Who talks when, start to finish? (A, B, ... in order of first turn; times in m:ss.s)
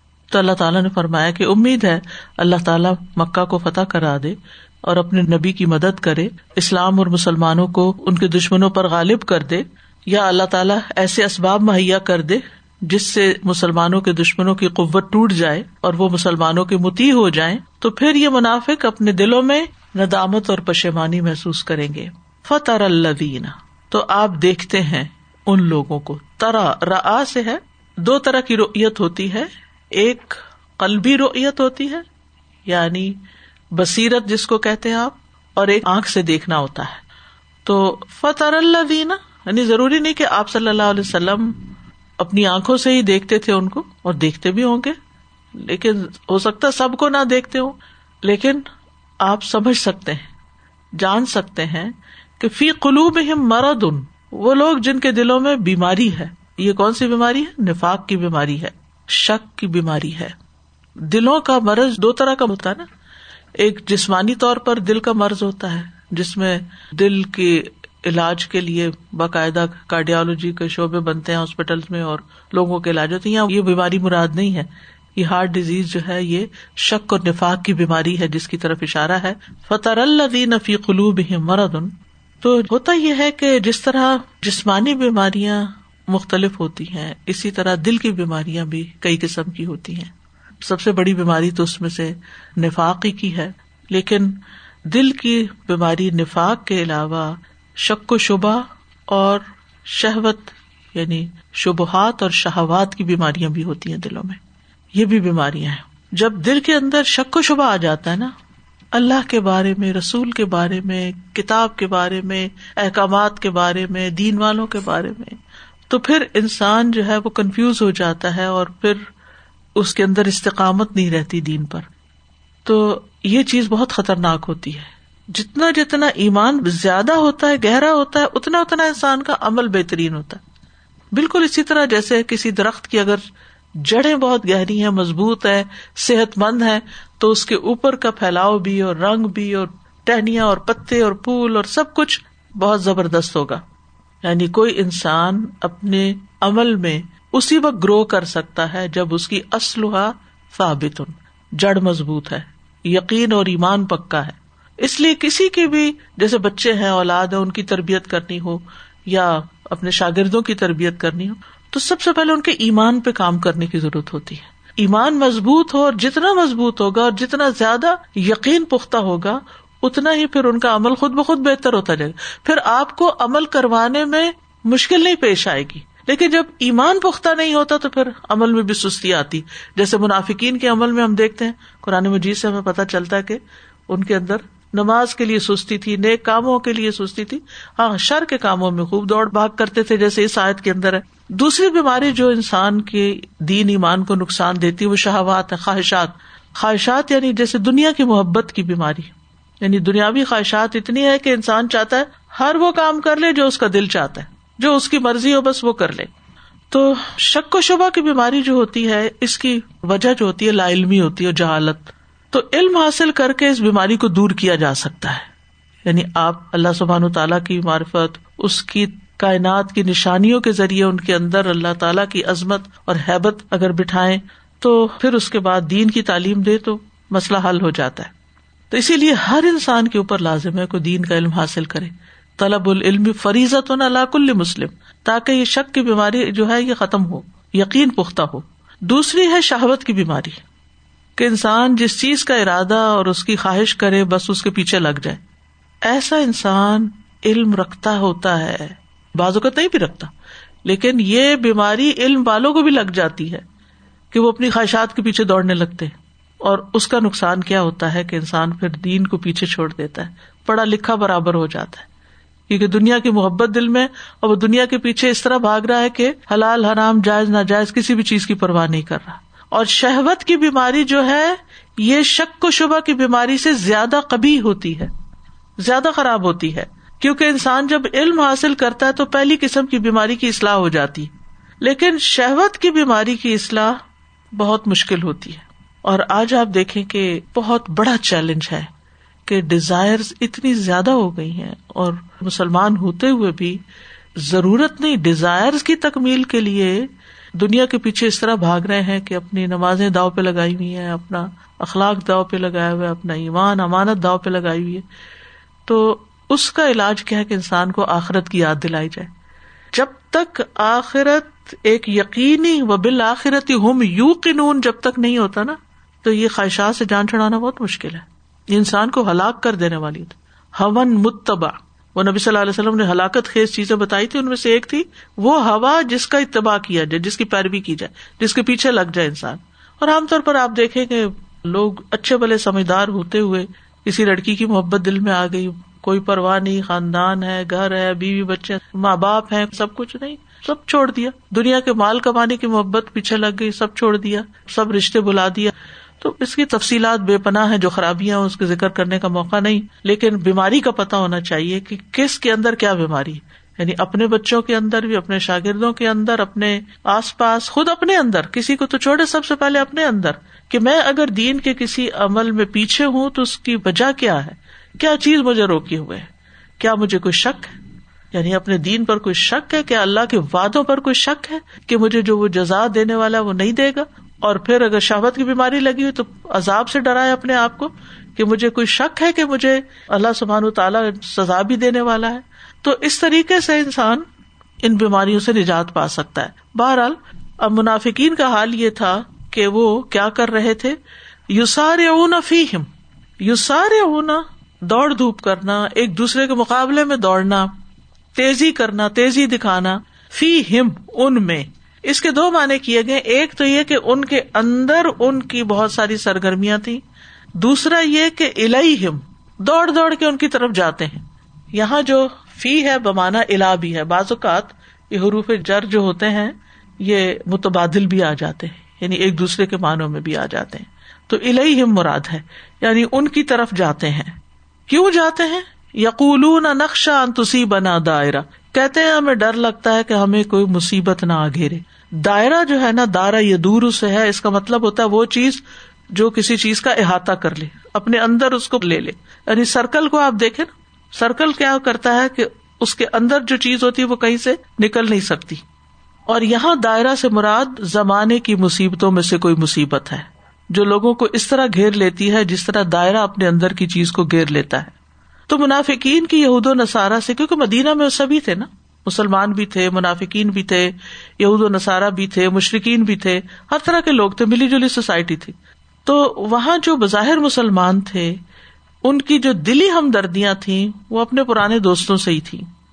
0:00.3-0:32.0 A
0:32.7-0:33.1 A
0:33.8-0:37.0 A
0:37.6-0:41.6 A
0:42.2-0:45.0 A
0:45.6-0:48.7 A
0:49.2-0:50.3 A
0:51.0-1:00.3 A
1:01.0-1:02.9 A
1:03.6-1:44.4 A
1:44.9-1:48.3 A
1:48.9-1:55.4 A
1:55.9-1:59.0 A
1:59.8-2:01.9 A
2:02.6-2:10.4 A
2:11.1-2:13.2 A
2:13.8-2:23.6 A
2:24.2-3:26.1 A
3:26.7-3:35.3 A
3:35.8-3:48.1 A
3:48.7-4:00.4 A
4:01.2-4:05.2 A
4:05.8-4:10.1 A
4:10.6-4:13.4 A
4:14.1-4:21.9 A
4:22.5-4:34.9 A
4:35.6-4:41.1 A
4:41.6-4:43.8 A
4:44.4-4:48.7 A
4:49.2-4:53.6 A
4:54.2-5:04.8 A
5:05.6-5:09.1 A
5:09.7-6:07.6 A
6:08.1-6:24.0 A
6:24.6-6:30.8 A
6:31.3-6:32.7 A
6:33.2-6:37.6 A
6:38.1-6:46.8 A
6:47.4-6:51.0 A
6:51.5-7:04.2 A
7:04.7-7:25.4 A
7:26.1-7:34.7 A
7:35.3-7:48.2 A
7:48.8-7:52.5 A